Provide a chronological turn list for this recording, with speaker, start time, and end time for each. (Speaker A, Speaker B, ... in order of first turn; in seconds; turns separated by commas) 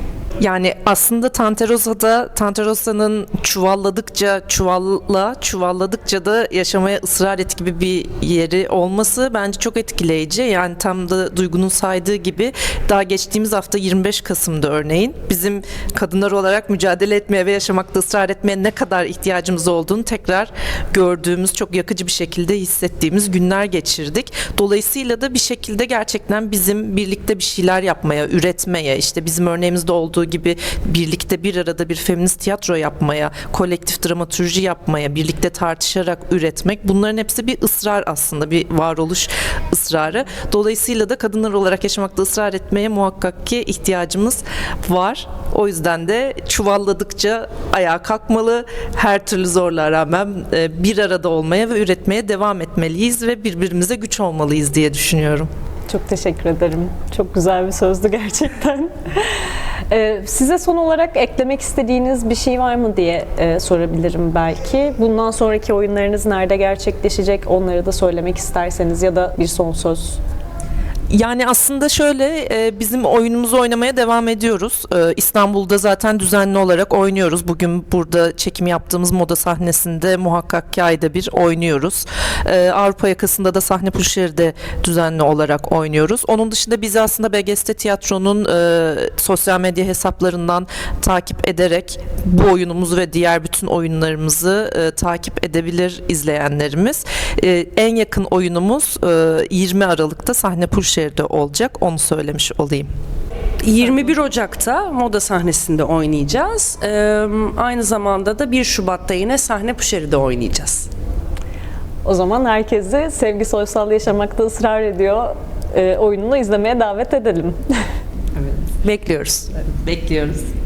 Speaker A: 0.4-55.5, Speaker B: 55.9-59.4, Speaker B: 59.9-70.2, Speaker A: 71.1-102.9, Speaker C: 103.6-110.9, Speaker B: 112.0-117.6, Speaker C: 118.4-120.5